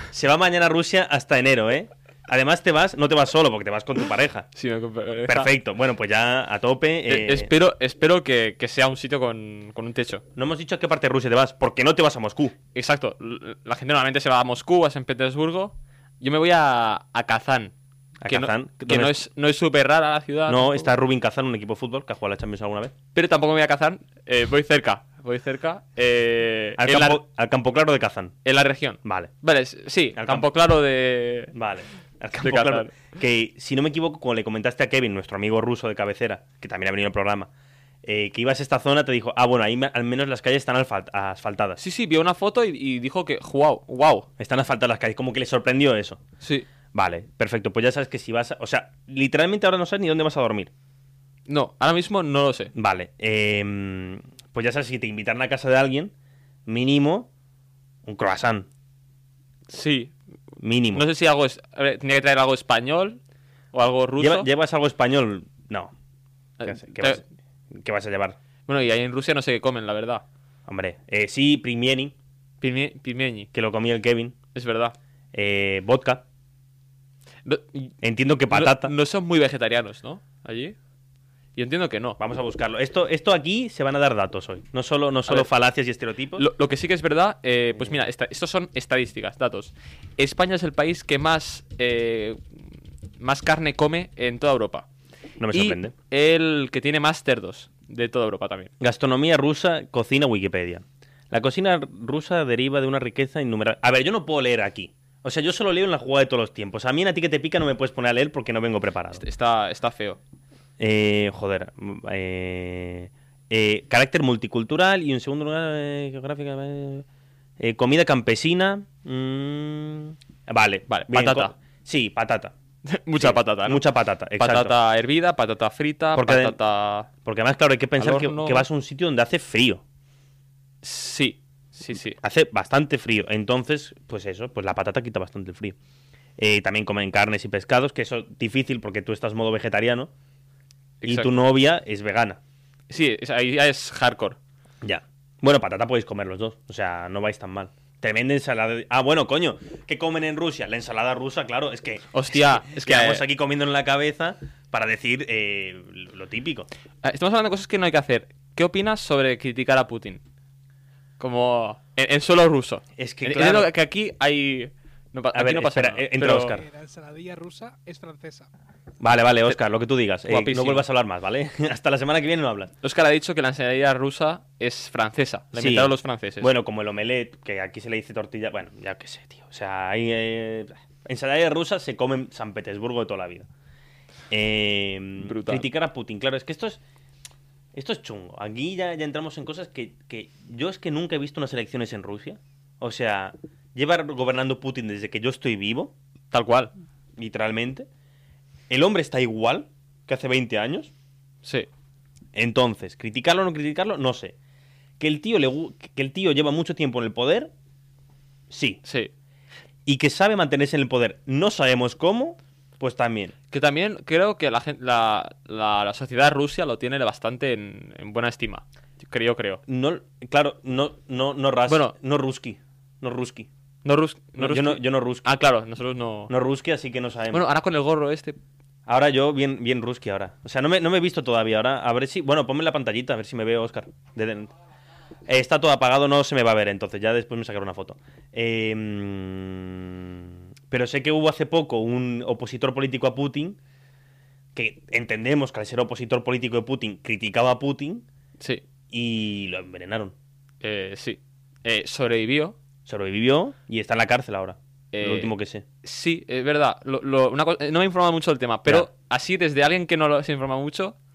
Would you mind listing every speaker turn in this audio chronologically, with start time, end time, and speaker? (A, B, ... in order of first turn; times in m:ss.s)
0:00.1-0:04.5 A
0:04.6-0:05.5 B
0:05.3-0:07.5 A
0:07.1-0:10.2 B
0:10.4-0:12.6 A
0:12.7-0:17.7 B
0:18.2-0:19.2 A
0:18.3-0:20.9 B
0:20.5-0:23.0 A
0:23.1-0:27.2 B
0:26.8-0:28.4 A
0:28.4-0:31.5 B
0:29.0-0:29.3 A
0:30.2-0:30.5 A
0:31.5-0:37.5 A
0:32.4-0:33.1 B
0:38.0-0:41.8 A
0:41.8-0:44.3 B
0:44.4-0:46.2 A
0:46.4-0:46.7 B
0:46.9-0:50.7 A
0:51.5-0:52.7 B
0:52.8-0:56.1 A
0:56.7-0:57.3 A
0:58.0-0:58.7 A
0:59.7-1:00.1 B
1:00.6-1:01.0 A
1:00.9-1:03.2 B
1:03.7-1:04.5 B
1:04.2-1:05.9 A
1:06.6-1:07.2 B
1:06.6-1:08.4 A
1:08.7-1:10.2 B
1:10.7-1:12.2 A
1:12.6-1:13.5 B
1:13.5-1:14.4 A
1:14.5-1:15.0 B
1:15.3-1:16.2 A
1:17.4-1:18.0 B
1:18.0-1:18.9 A
1:18.5-1:20.8 B
1:21.6-1:22.2 B
1:22.2-1:26.4 A
1:26.4-1:32.4 B
1:33.2-1:34.9 B
1:35.4-1:35.9 A
1:35.5-1:38.7 B
1:38.8-1:49.2 A
1:49.2-1:50.2 B
1:50.8-1:57.1 A
1:57.6-2:02.6 A
2:00.9-2:01.5 B
2:02.9-2:03.8 B
2:03.2-2:04.7 A
2:04.4-2:07.1 B
2:06.2-2:06.6 A
2:07.2-2:09.8 A
2:08.0-2:08.7 B
2:10.8-2:12.2 B
2:12.2-2:15.8 A
2:16.4-2:20.1 A
2:21.0-2:21.4 B
2:21.0-2:22.4 A
2:22.9-2:24.4 B
2:24.8-2:36.7 A
2:32.1-2:33.2 B
2:37.0-2:40.2 B
2:41.2-2:46.6 B
2:43.0-2:43.7 A
2:45.3-2:46.6 A
2:46.5-2:48.5 C
2:49.0-2:52.7 A
2:50.3-2:50.8 B
2:52.8-2:56.5 B
2:55.6-3:03.5 A
3:04.3-3:06.8 A
3:05.2-3:05.7 B
3:07.7-3:15.9 A
3:16.3-3:16.7 B
3:17.2-3:17.9 A
3:18.7-3:20.9 A
3:22.3-3:24.4 A
3:25.0-3:27.5 A
3:28.5-3:28.8 A
3:28.9-3:29.1 B
3:29.9-3:33.4 A
3:33.5-3:39.6 B
3:39.7-3:43.5 A
3:41.7-3:42.0 B
3:43.8-3:46.3 B
3:44.4-3:45.3 A
3:46.3-3:47.4 A
3:47.3-3:48.4 B
3:48.9-3:54.5 A
3:55.3-4:03.6 A
4:04.6-4:08.0 A
4:08.9-4:10.2 A
4:10.6-4:12.6 B
4:12.9-4:15.7 A
4:14.9-4:21.0 B